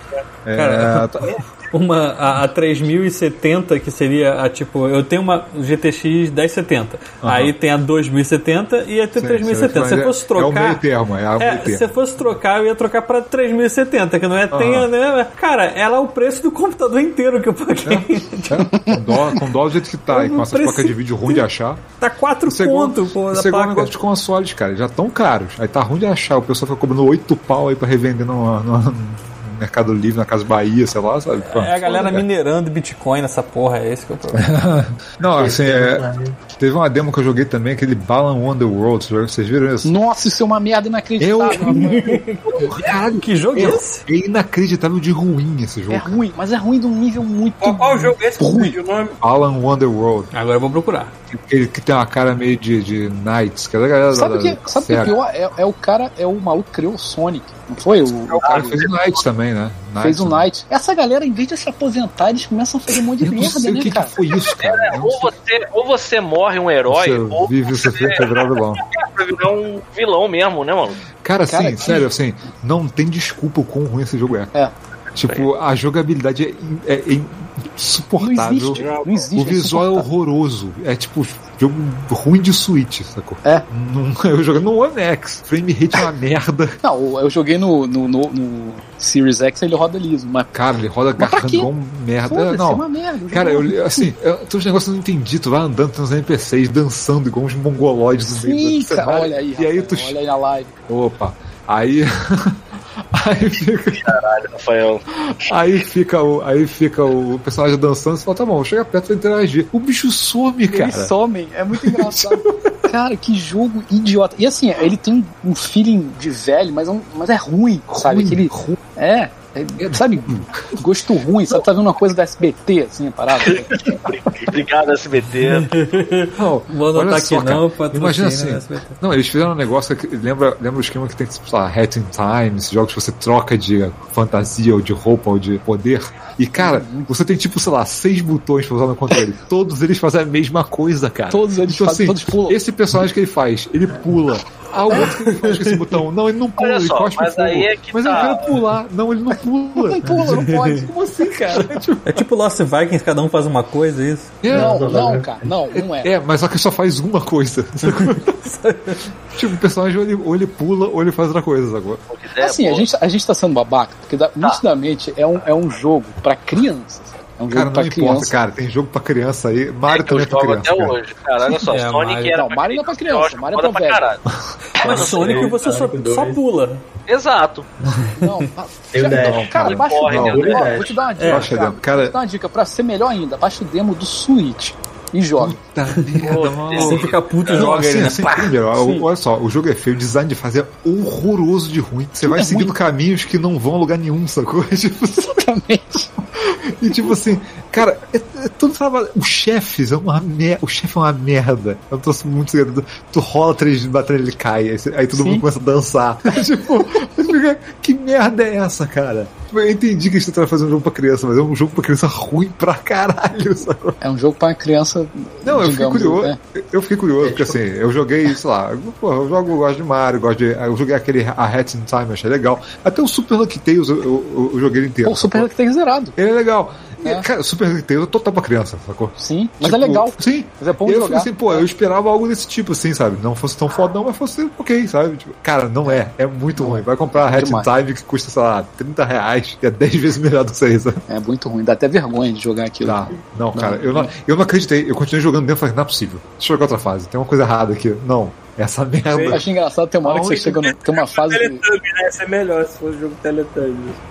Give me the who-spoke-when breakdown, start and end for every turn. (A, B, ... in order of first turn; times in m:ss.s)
0:00.4-0:01.3 A
0:00.6-0:10.8 B
0:07.2-0:07.5 A
0:09.2-0:11.9 A
0:11.4-0:18.6 B
0:14.5-0:14.9 A
0:17.8-0:21.8 A
0:18.7-0:19.4 C
0:20.1-0:21.4 B
0:22.0-0:23.9 B
0:22.5-0:32.2 A
0:31.4-0:34.4 B
0:34.3-0:36.0 A
0:35.3-0:36.4 D
0:36.6-0:40.0 A
0:39.8-0:42.2 C
0:41.2-0:41.9 A
0:41.7-0:44.0 B
0:42.5-0:42.8 E
0:42.6-0:46.2 A
0:45.9-0:48.8 C
0:47.6-0:49.2 E
0:49.2-0:50.3 A
0:50.3-0:51.1 B
0:51.3-0:55.2 A
0:54.1-0:58.8 C
0:58.3-0:58.8 E
0:58.4-1:00.4 A
1:00.0-1:04.2 C
1:03.2-1:05.3 A
1:04.4-1:11.0 F
1:06.9-1:08.8 A
1:11.2-1:14.5 A
1:11.5-1:12.1 C
1:15.1-1:26.8 A
1:18.2-1:20.1 C
1:18.7-1:19.4 E
1:26.8-1:30.5 C
1:30.5-1:40.2 A
1:31.2-1:31.7 C
1:32.2-1:34.1 C
1:38.3-1:40.8 C
1:40.9-1:42.6 A
1:43.1-1:44.1 A
1:44.0-1:45.0 F
1:45.2-1:51.1 A
1:50.7-2:03.8 C
1:51.7-1:52.7 A
1:57.9-1:58.8 A
1:59.8-2:00.7 A
2:03.4-2:05.9 F
2:05.5-2:09.0 B
2:06.4-2:30.5 A
2:16.6-2:17.1 C
2:21.3-2:22.6 C
2:24.9-2:25.7 B
2:26.6-2:28.6 F
2:29.7-2:31.7 C
2:30.3-2:30.9 B
2:31.2-2:32.2 A
2:32.0-2:34.4 B
2:34.4-2:34.8 A
2:34.5-2:36.1 C
2:34.5-2:35.5 D
2:35.7-2:38.4 A
2:37.9-2:39.0 B
2:39.3-2:42.0 A
2:42.1-2:42.9 F
2:42.4-2:48.4 C
2:47.5-2:51.0 A
2:49.9-2:54.2 F
2:51.7-2:52.4 B
2:52.3-2:54.1 C
2:54.7-2:56.8 B
2:54.8-2:55.5 F
2:54.8-2:56.4 D
2:57.1-2:57.7 F
2:58.2-3:05.6 C
2:58.9-3:01.0 D
2:59.0-3:00.6 A
2:59.5-3:00.9 F
3:01.2-3:01.5 B
3:01.2-3:02.2 A
3:05.4-3:15.4 A
3:06.0-3:08.5 B
3:06.2-3:07.7 F
3:08.7-3:09.1 C
3:12.2-3:12.7 C
3:15.2-3:16.1 C
3:16.4-3:34.0 A
3:25.1-3:25.4 C
3:34.0-3:36.4 C
3:35.4-3:45.5 A
3:37.2-3:37.6 D
3:45.0-3:46.1 C
3:46.2-4:01.0 A
3:47.0-3:47.2 C
3:49.2-3:51.7 C
3:56.6-3:57.7 C
4:01.1-4:04.1 C
4:02.8-4:09.5 A
4:09.1-4:09.4 E
4:09.3-4:11.6 C
4:10.0-4:10.6 A
4:10.6-4:14.0 E